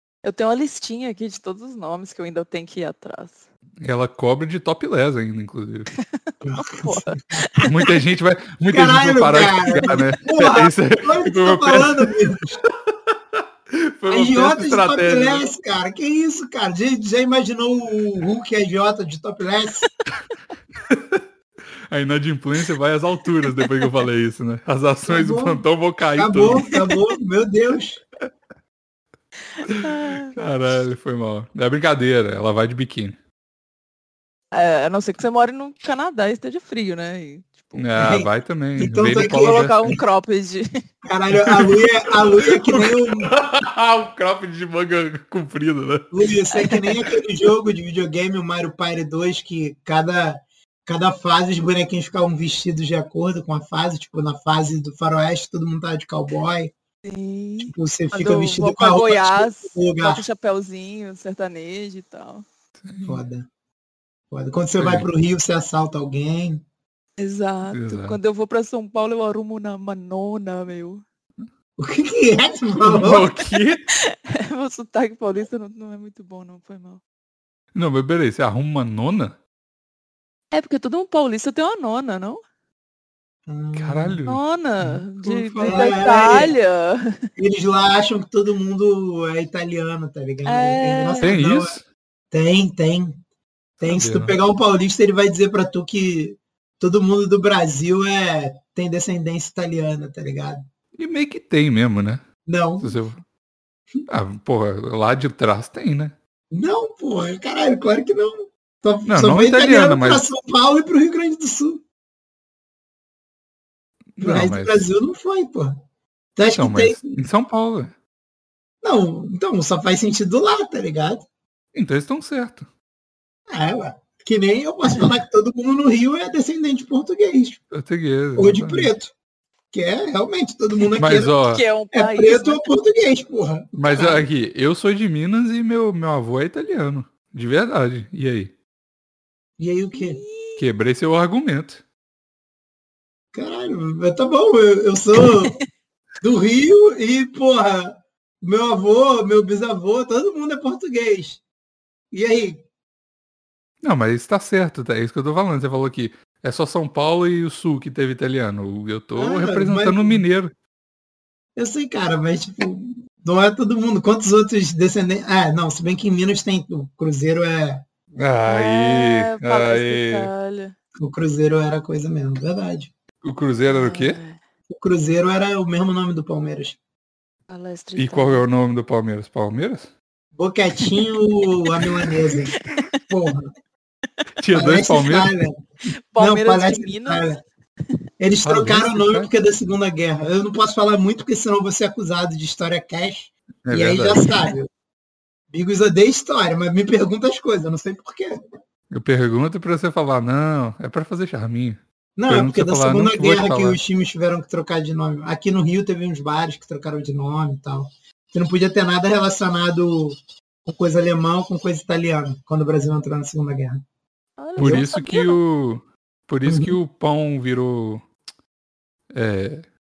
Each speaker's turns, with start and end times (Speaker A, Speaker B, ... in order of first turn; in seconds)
Speaker A: 0.2-3.4, 6.0-8.0, 23.5-24.0, 29.6-30.3, 34.5-38.1, 39.1-40.7, 57.0-62.4, 67.2-71.0, 73.5-77.0, 80.5-82.4, 84.2-87.3, 90.4-91.3, 131.4-132.7, 139.9-140.6, 168.5-170.7, 173.7-174.4, 177.5-178.4, 181.8-183.0, 186.1-187.3, 214.4-215.4
Speaker B: 3.8-5.9, 7.7-12.1, 12.6-15.4, 20.8-21.2, 21.9-26.7, 29.7-33.2, 37.8-39.9, 41.5-46.1, 62.8-63.2, 64.8-65.0, 67.7-68.2, 72.8-73.8, 77.7-79.4, 83.7-86.0, 91.2-91.8, 93.8-94.3, 100.9-102.2, 102.8-103.2, 104.1-106.1, 109.0-110.3, 114.2-114.8, 116.5-117.9, 121.7-122.7, 127.7-128.9, 131.0-131.6, 133.8-138.5, 140.6-141.8, 153.8-160.5, 168.1-170.3, 173.2-174.2, 177.9-179.9, 184.4-185.3, 188.4-189.3, 193.7-194.5, 198.9-203.8, 214.6-218.1, 219.1-219.7
Speaker C: 6.4-7.5, 8.7-12.6, 14.1-19.9, 25.1-25.6, 26.1-28.0, 38.0-40.0, 41.0-43.3, 46.1-56.7, 57.6-60.2, 63.0-63.5, 64.3-66.6, 71.8-73.3, 83.5-84.2, 85.6-86.5, 87.4-91.8, 92.3-93.2, 93.8-100.6, 102.5-103.0, 106.5-111.8, 114.2-115.8, 116.3-117.2, 118.8-121.2, 123.5-127.6, 128.3-129.1, 129.7-131.3, 131.9-134.2, 139.6-140.2, 143.3-145.6, 146.2-151.4, 152.1-152.6, 159.2-160.2, 161.6-167.8, 171.0-172.9, 174.7-176.8, 180.3-182.6, 183.1-183.5, 184.5-185.6, 186.2-187.4, 188.2-194.7, 195.5-198.4, 202.2-213.8, 214.6-214.8, 216.4-216.8